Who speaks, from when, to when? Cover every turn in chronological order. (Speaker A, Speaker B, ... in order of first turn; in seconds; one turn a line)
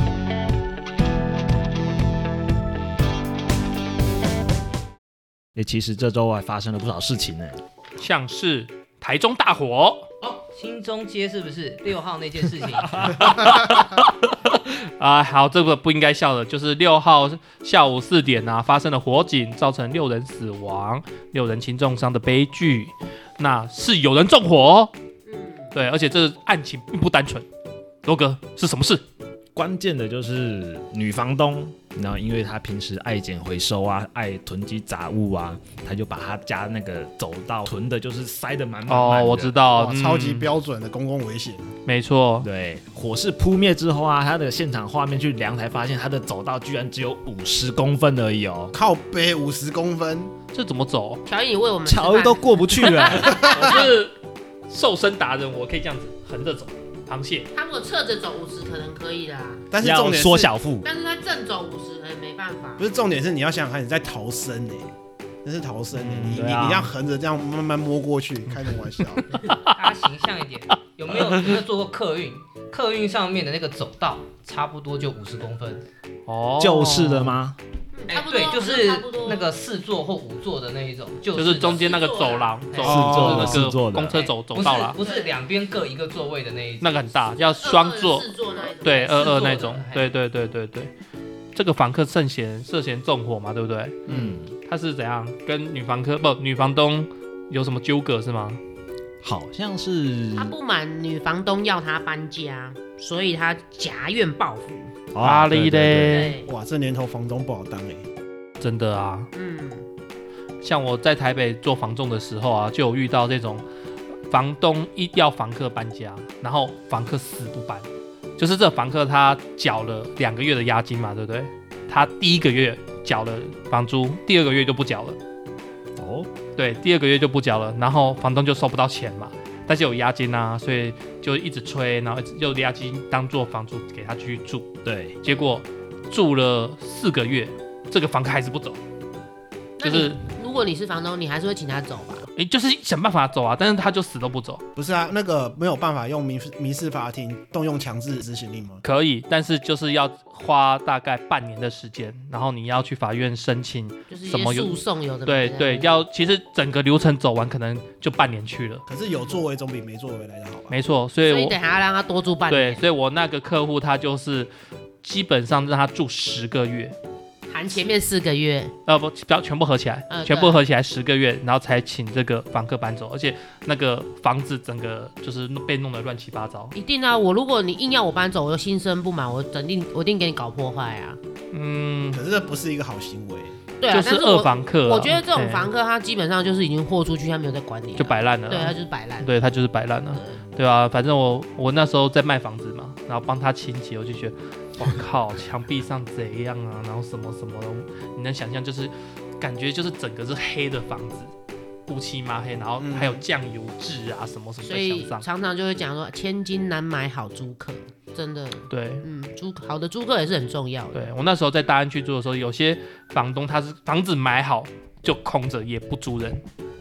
Speaker A: 5.5-7.6
Speaker B: 8.0-10.1
Speaker C: 10.2-13.5
Speaker B: 13.0-24.9
Speaker D: 25.3-25.7
Speaker B: 25.7-27.4
Speaker B: 28.0-29.0
Speaker A: 29.5-39.5
Speaker B: 38.9-40.5
Speaker E: 39.8-41.7
Speaker B: 41.9-42.5
Speaker A: 42.4-48.7
Speaker E: 48.7-50.3
Speaker B: 50.5-51.2
Speaker D: 51.2-53.8
Speaker A: 51.9-53.5
Speaker E: 53.3-53.8
Speaker B: 53.4-54.1
Speaker B: 54.7-57.5
Speaker D: 57.5-59.6
Speaker E: 59.7-60.5
Speaker A: 59.8-60.9
Speaker D: 60.8-62.8
Speaker E: 62.8-64.9
Speaker E: 65.4-69.4
Speaker B: 65.9-66.4
Speaker A: 66.2-66.9
Speaker C: 69.5-75.8
Speaker B: 76.3-77.4
Speaker A: 76.6-77.6
Speaker D: 77.9-79.5
Speaker C: 78.1-82.0
Speaker B: 81.3-85.0
Speaker D: 81.8-82.6
Speaker C: 82.7-83.2
Speaker A: 82.8-84.1
Speaker E: 83.0-83.5
Speaker C: 84.1-87.1
Speaker D: 85.0-85.3
Speaker B: 86.8-90.9
Speaker D: 87.4-89.5
Speaker C: 89.1-90.1
Speaker B: 91.5-98.6
Speaker A: 94.1-94.5
Speaker A: 99.2-100.5
Speaker D: 100.3-104.9
Speaker A: 105.1-106.3
Speaker B: 105.2-106.4
Speaker D: 106.1-106.5
Speaker E: 106.5-108.0
Speaker B: 108.6-109.3
Speaker D: 109.3-109.8
Speaker B: 110.6-113.6
Speaker B: 114.3-125.2
Speaker A: 126.0-126.3
Speaker B: 126.5-134.7
Speaker A: 134.8-135.2
Speaker B: 135.2-138.8
Speaker D: 135.3-135.6
Speaker D: 139.8-142.3
Speaker B: 139.8-140.2
Speaker B: 142.3-144.6
Speaker E: 144.8-148.8
Speaker B: 148.8-158.8
Speaker D: 154.1-156.0
Speaker E: 158.9-160.7
Speaker B: 160.7-161.6
Speaker D: 161.2-162.8
Speaker B: 162.5-164.5
Speaker B: 165.0-166.9
Speaker D: 167.5-168.7
Speaker B: 168.9-176.7
Speaker D: 170.1-170.6
Speaker D: 176.7-181.2
Speaker B: 181.5-182.2
Speaker E: 182.1-183.5
Speaker D: 183.8-189.3
Speaker B: 183.9-185.7
Speaker B: 188.0-201.3
Speaker D: 190.1-190.4
Speaker B: 201.9-205.2
Speaker E: 202.8-203.2
Speaker D: 204.6-211.1
Speaker B: 208.7-209.0
Speaker B: 210.9-216.4